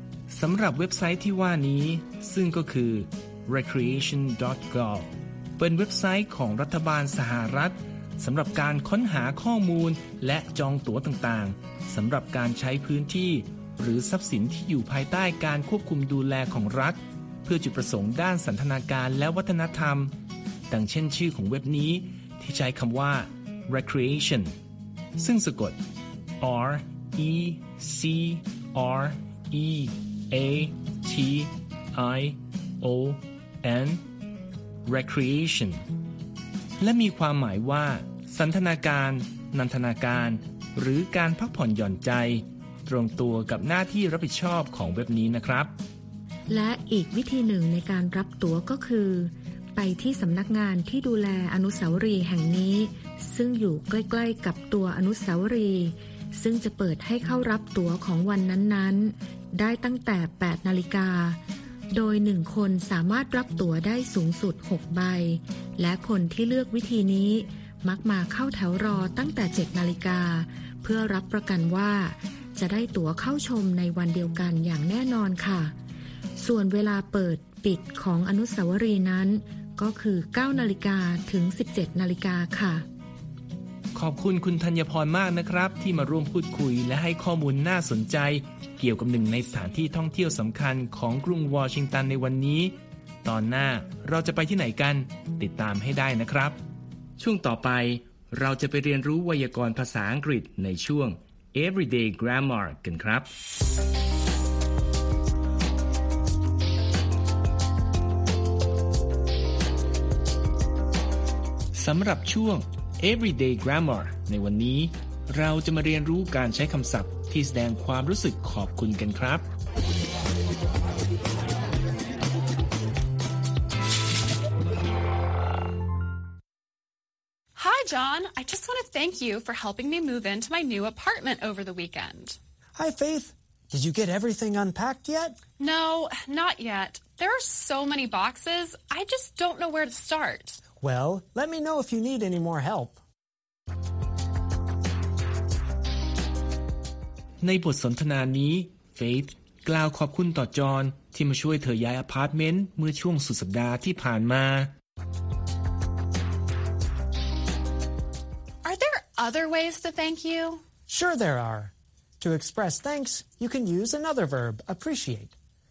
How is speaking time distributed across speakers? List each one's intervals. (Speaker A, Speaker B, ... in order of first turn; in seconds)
Speaker A: 0.3-20.1, 20.7-24.6, 25.2-25.8, 26.4-34.0, 34.9-35.8, 36.8-45.7, 83.9-96.6, 97.2-103.3, 111.7-119.5, 147.4-154.7
Speaker B: 46.5-61.4, 61.9-75.7, 76.4-82.9
Speaker C: 127.6-132.4, 135.6-140.6, 158.6-160.6
Speaker D: 132.8-135.4, 140.8-143.0, 160.9-165.4